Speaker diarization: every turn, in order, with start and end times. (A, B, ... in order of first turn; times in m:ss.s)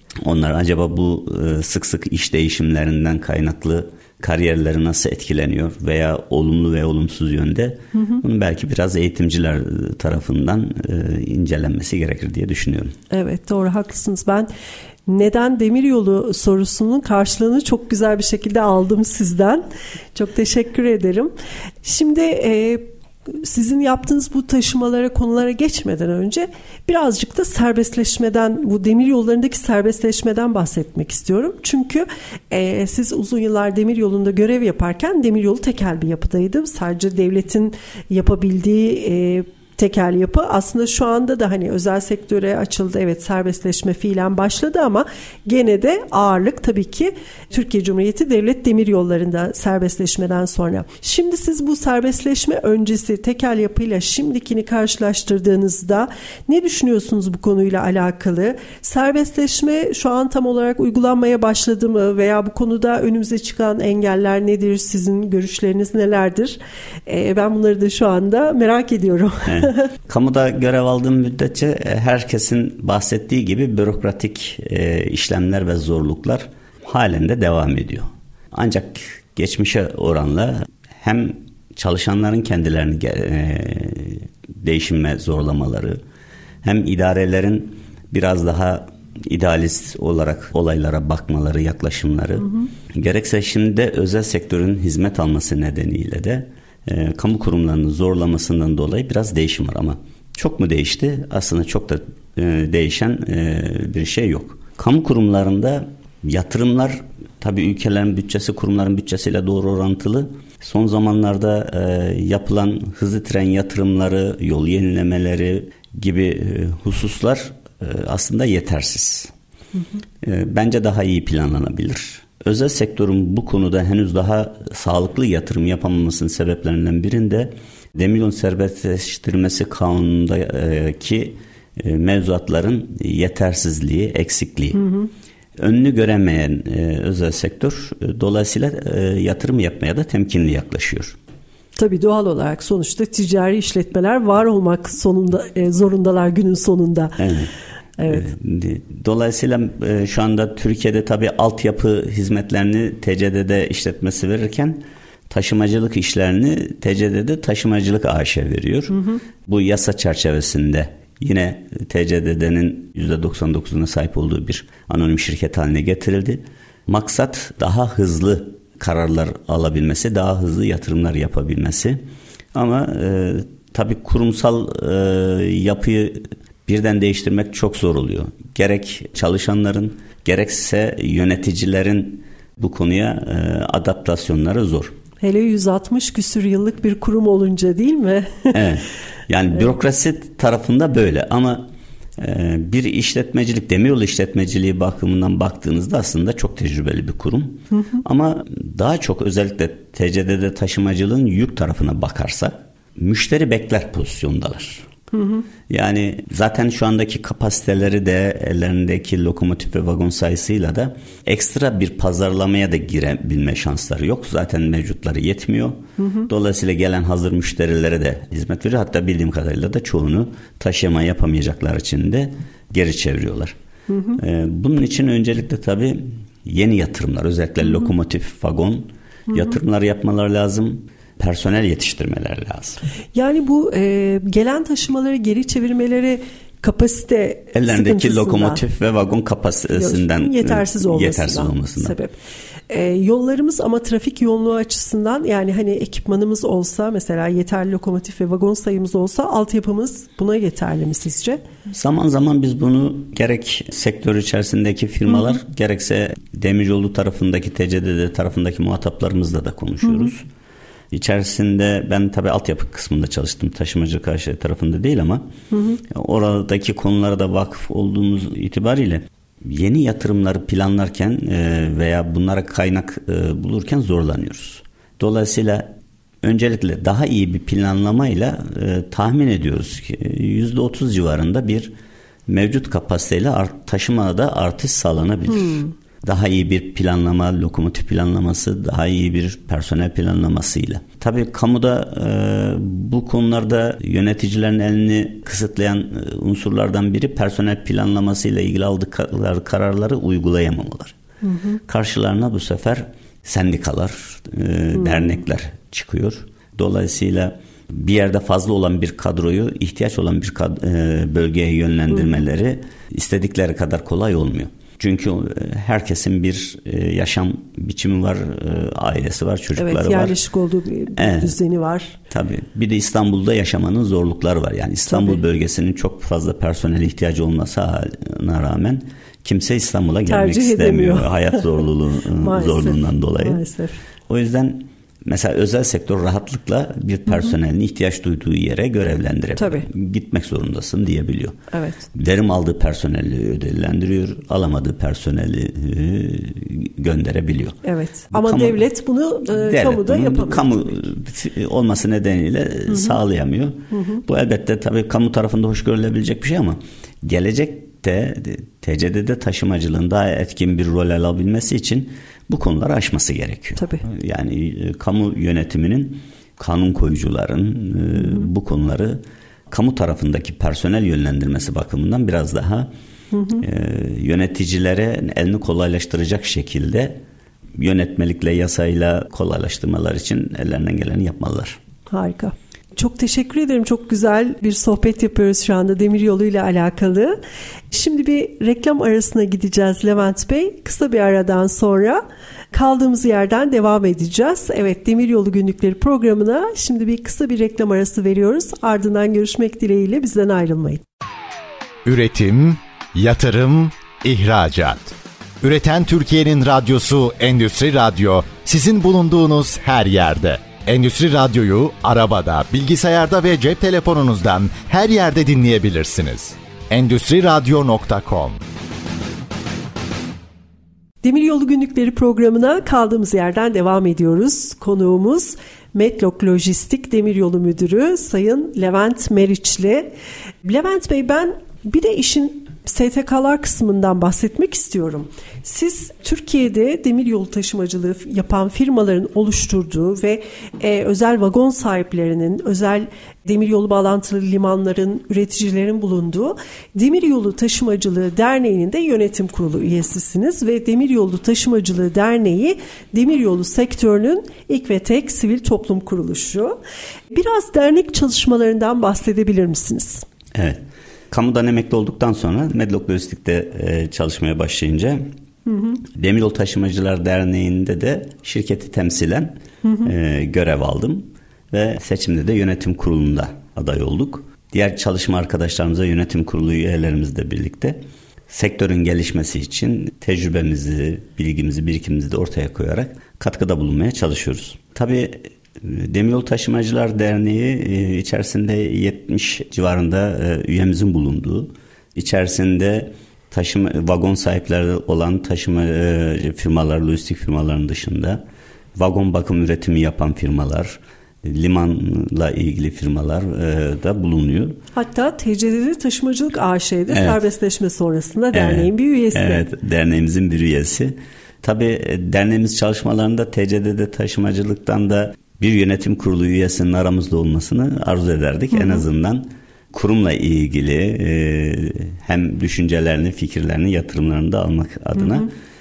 0:00.2-0:13.0 A
0:08.0-0:08.2 B
0:13.1-0:14.5 B
0:15.1-0:21.3 B
0:21.8-1:09.9 B
1:09.5-1:26.0 A
1:26.6-1:59.3 A
2:00.2-2:14.8 A
2:14.7-2:15.1 B
2:15.6-2:21.2 A
2:21.8-2:27.2 B
2:27.2-2:27.5 A
2:28.0-2:28.3 B
2:28.1-2:52.0 A
2:38.9-2:39.2 B
2:52.5-3:05.0 A
3:05.2-3:08.7 B
3:08.5-3:24.9 A
3:25.1-3:25.4 B
3:25.7-3:43.6 A
3:36.0-3:36.3 B
3:43.9-3:44.2 B
3:44.2-3:52.8 A
3:53.1-3:58.6 B
3:57.5-4:02.0 A
3:59.7-4:02.2 B
4:02.7-4:11.4 B
4:11.7-4:20.3 A
4:15.1-4:15.4 B
4:20.9-4:25.2 A
4:25.5-4:25.8 B
4:25.9-4:41.7 A
4:42.3-5:01.0 A
4:45.4-4:45.7 B
5:01.2-5:01.6 B
5:01.7-5:20.2 A
5:04.8-5:05.1 B
5:19.6-5:22.0 B
5:21.0-5:21.4 A
5:22.1-5:33.4 A
5:24.9-5:25.2 B
5:30.1-5:31.4 B
5:32.2-5:33.8 B
5:34.1-5:41.4 A
5:39.4-5:39.7 B
5:41.5-5:41.8 B
5:41.9-5:47.6 A
5:47.6-5:50.7 B
5:48.1-5:48.6 A
5:49.3-6:12.7 A
5:53.7-5:54.0 B
6:03.6-6:03.8 B
6:08.0-6:08.3 B
6:13.1-6:13.4 B
6:13.4-6:17.0 A
6:17.6-6:21.6 A
6:21.9-6:27.2 B
6:27.7-6:40.8 B
6:41.8-6:58.4 C
7:01.0-7:09.9 B
7:10.4-7:36.6 B
7:37.1-7:40.0 B
7:40.3-7:45.1 A
7:45.5-7:45.8 B
7:46.0-8:18.2 A
7:49.6-7:49.9 B
8:18.8-8:24.6 A
8:24.8-8:29.4 B
8:26.9-8:27.2 A
8:28.3-8:45.3 A
8:38.5-8:38.8 B